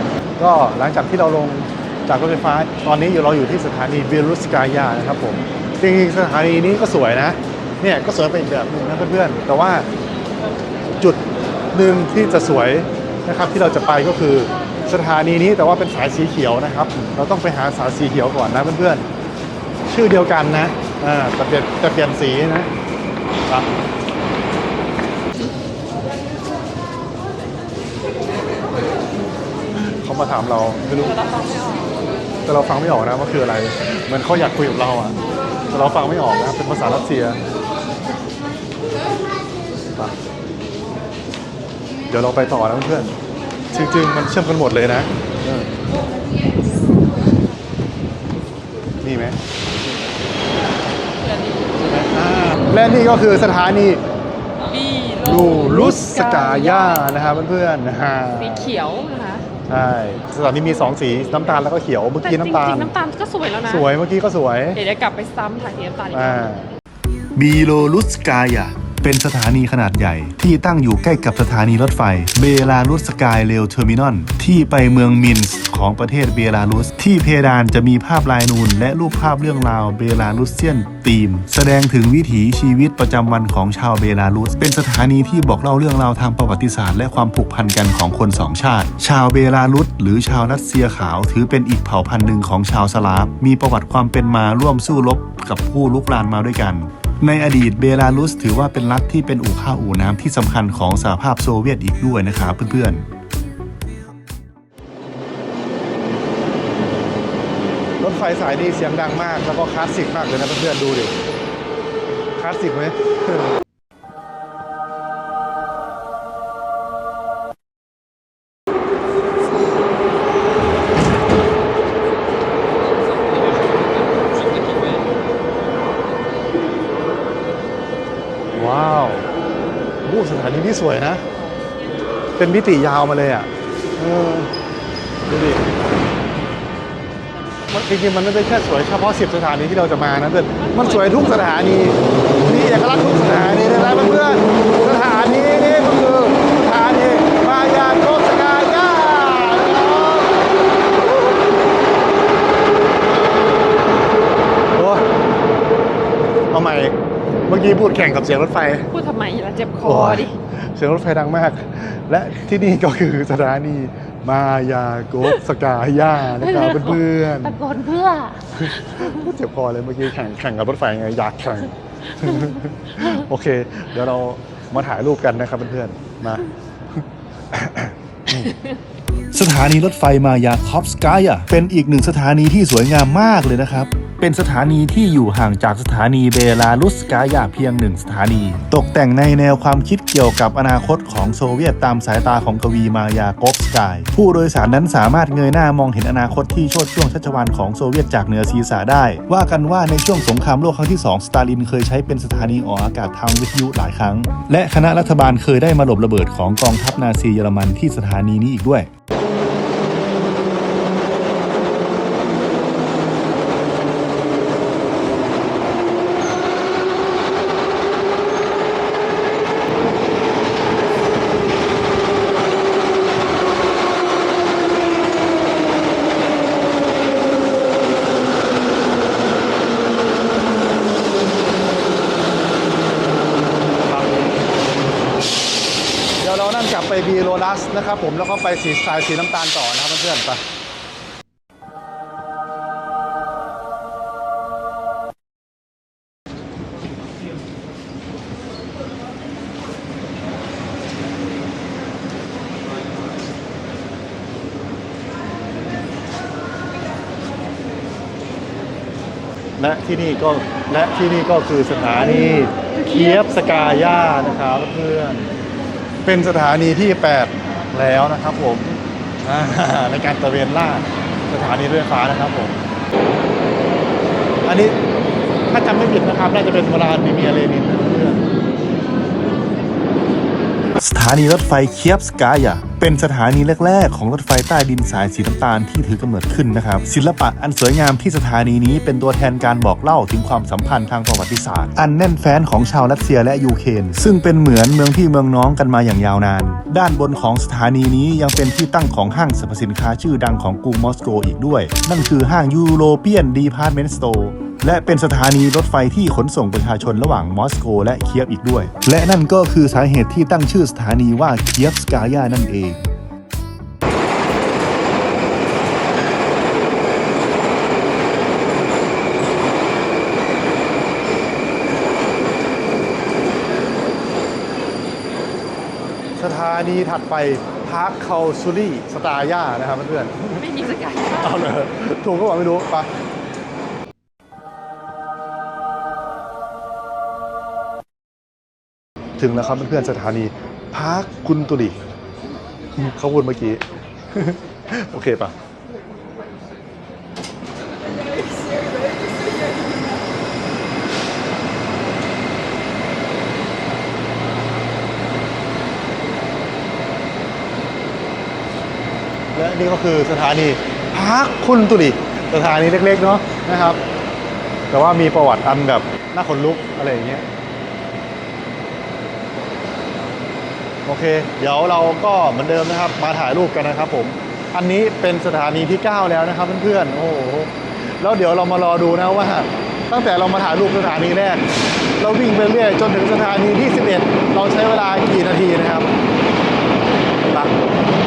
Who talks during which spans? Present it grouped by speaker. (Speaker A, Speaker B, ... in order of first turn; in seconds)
Speaker A: 0.4-9.9, 11.7-19.1, 19.9-22.7, 29.9-31.2, 32.5-35.2, 35.7-37.4, 42.1-43.1, 43.7-45.7, 49.0-49.4, 51.8-54.0, 55.2-58.7, 59.7-62.9, 63.7-64.8, 66.1-66.7, 108.0-111.1, 112.4-113.6, 128.5-129.3, 130.0-131.2, 132.4-134.5, 135.3-135.7, 137.7-150.4, 154.8-155.1, 156.5-156.9, 157.5-158.9, 159.8-167.6, 168.5-176.5, 177.0-178.5, 233.9-234.3, 236.2-240.4, 259.6-265.3, 266.1-272.6, 274.4-274.8, 275.5-278.2, 326.2-332.9, 339.2-341.9, 342.8-343.6, 344.1-345.4, 359.3-363.8, 364.7-367.2, 370.9-381.5, 382.0-385.9
Speaker B: 31.0-31.9, 51.1-52.0, 54.7-57.2, 58.3-59.5, 62.2-63.9, 64.8-66.5, 140.6-141.5, 158.9-160.3, 166.4-169.3, 330.4-331.5
Speaker C: 67.4-103.0, 179.3-208.9, 280.8-312.9